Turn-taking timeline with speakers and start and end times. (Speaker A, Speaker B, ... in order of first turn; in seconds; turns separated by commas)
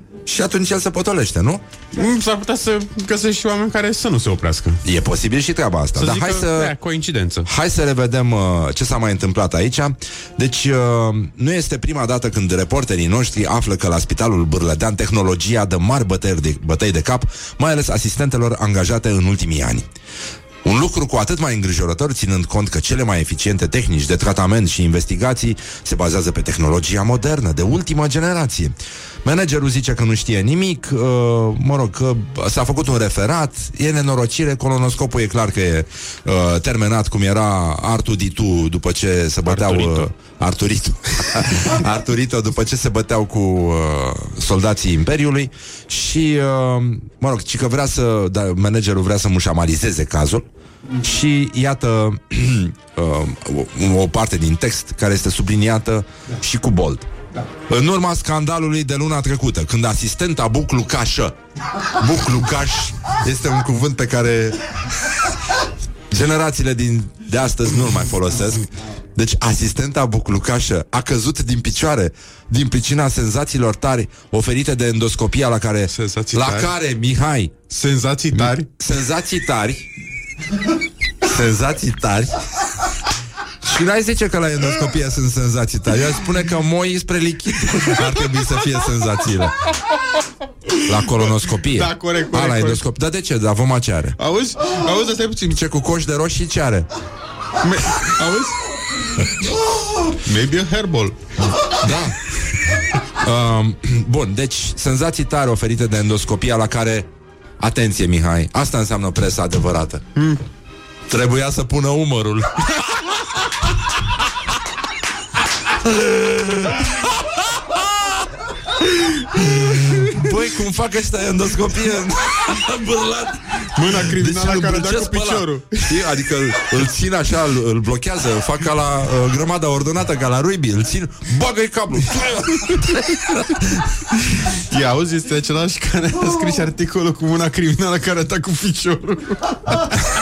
Speaker A: 0.2-1.6, Speaker B: 1.9-4.8, Speaker A: 4.8-6.8, Speaker B: 5.9-7.5, Speaker A: 7.5-19.8, Speaker A: 20.6-50.5, Speaker B: 39.4-40.1, Speaker A: 51.0-57.1, Speaker A: 57.7-61.4, Speaker A: 61.9-65.2, Speaker A: 66.1-77.6, Speaker B: 75.9-76.7, Speaker B: 77.7-78.7, Speaker A: 78.3-79.9, Speaker A: 81.2-82.4, Speaker A: 83.6-89.6, Speaker B: 90.7-92.8, Speaker A: 90.9-94.2, Speaker B: 94.2-95.6, Speaker A: 95.5-96.9, Speaker B: 97.6-98.6, Speaker B: 100.2-101.7, Speaker A: 101.8-102.2, Speaker A: 103.2-107.1, Speaker A: 107.6-110.0, Speaker A: 111.1-112.8, Speaker A: 115.7-118.2, Speaker A: 120.0-133.8, Speaker B: 123.7-125.9, Speaker B: 134.6-139.9